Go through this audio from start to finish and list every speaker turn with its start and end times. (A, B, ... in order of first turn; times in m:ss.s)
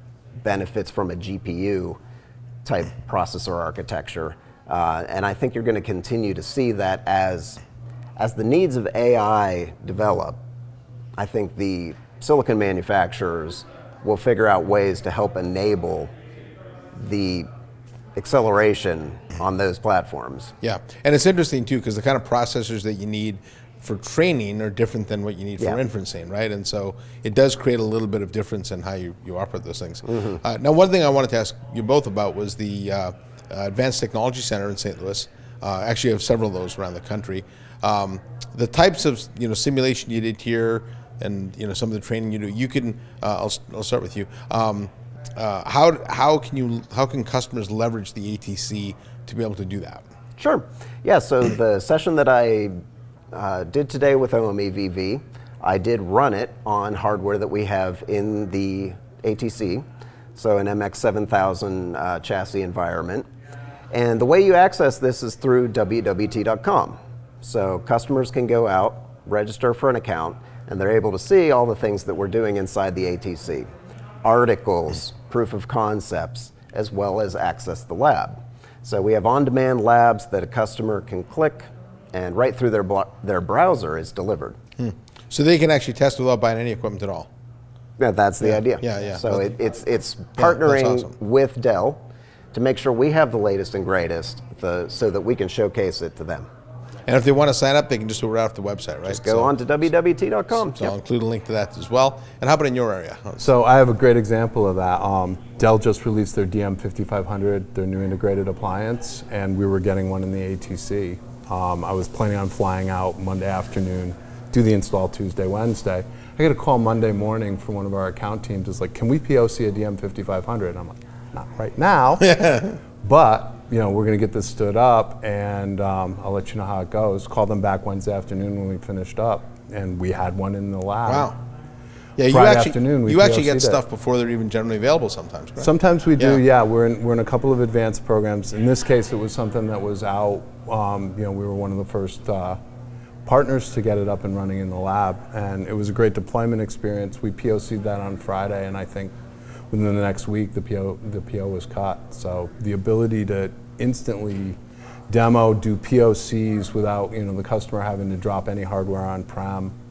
0:00.4-0:02.0 A
0:02.6-0:07.6 A
0:08.2-0:10.4 A
0:11.2-0:16.1 A
0:16.9-0:17.5 A
0:18.2-0:20.5 A
0:20.6-0:50.0 B
0:30.1-0:30.4 A
0:50.4-0:52.8 A
0:53.3-0:59.8 A
1:00.3-1:03.2 A
1:03.9-1:13.7 A
1:14.2-1:24.6 A
1:24.8-1:27.3 B
1:28.0-1:32.0 A
1:28.4-1:29.5 B
1:30.4-1:31.1 B
1:32.5-1:36.5 A
1:37.1-1:39.5 B
1:39.0-1:40.9 A
1:40.6-1:43.5 B
1:43.4-2:02.4 C
2:02.2-2:02.7 B
2:03.0-2:11.3 C
2:11.1-2:11.3 B
2:12.2-2:16.4 B
2:12.2-2:13.8 C
2:15.6-2:22.6 C
2:23.2-2:29.1 C
2:29.7-2:34.6 C
2:35.1-2:39.7 C